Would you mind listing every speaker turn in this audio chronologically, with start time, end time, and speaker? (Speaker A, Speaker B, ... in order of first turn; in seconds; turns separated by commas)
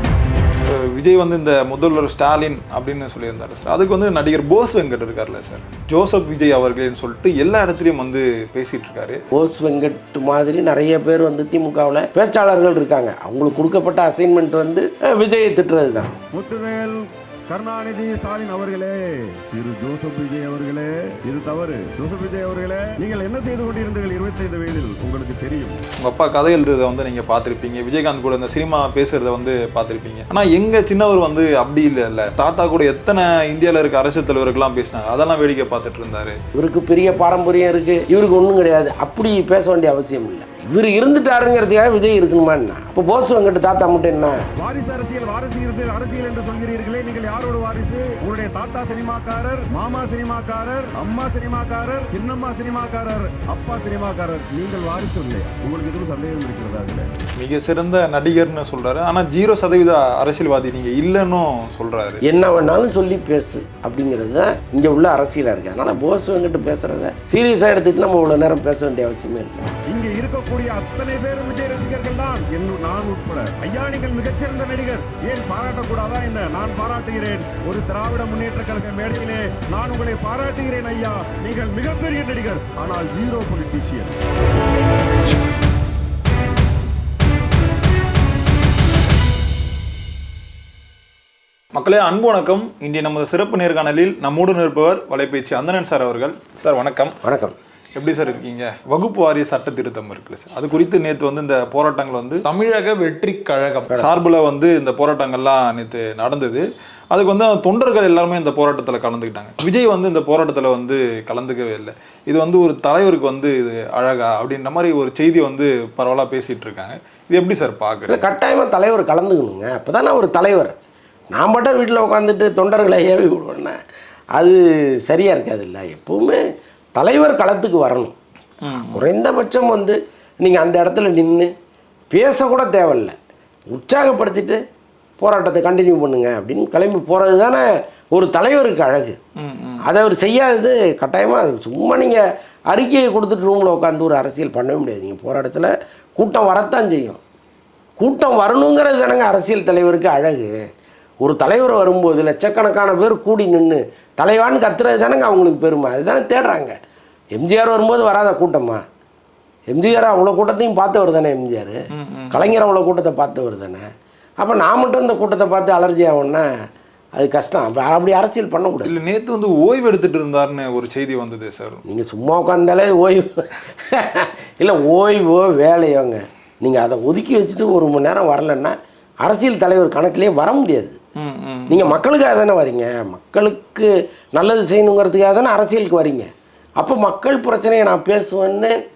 Speaker A: 0.7-9.2, Speaker B: 9.3-16.1, Speaker C: 16.3-25.8, Speaker A: 26.0-36.4, Speaker B: 36.5-44.4, Speaker C: 44.6-57.1, Speaker A: 57.4-62.2, Speaker B: 62.3-69.6, Speaker C: 69.9-84.2, Speaker A: 91.7-97.2, Speaker B: 97.2-97.5, Speaker A: 98.0-118.2, Speaker B: 118.1-120.7, Speaker B: 121.3-123.8, Speaker B: 124.3-126.4, Speaker B: 127.0-128.1, Speaker A: 128.6-129.0, Speaker B: 128.8-131.5, Speaker B: 132.1-133.1, Speaker B: 133.7-134.6, Speaker B: 135.2-139.2, Speaker A: 139.4-139.8, Speaker B: 139.8-147.2, Speaker B: 148.0-150.5, Speaker B: 151.2-156.7, Speaker B: 157.3-158.8, Speaker B: 159.7-161.8, Speaker A: 161.9-162.4, Speaker B: 162.3-163.8, Speaker B: 164.4-166.5, Speaker B: 167.2-168.9, Speaker A: 168.8-171.8, Speaker B: 171.9-181.0, Speaker A: 181.2-182.0, Speaker B: 181.7-186.3, Speaker B: 186.8-188.7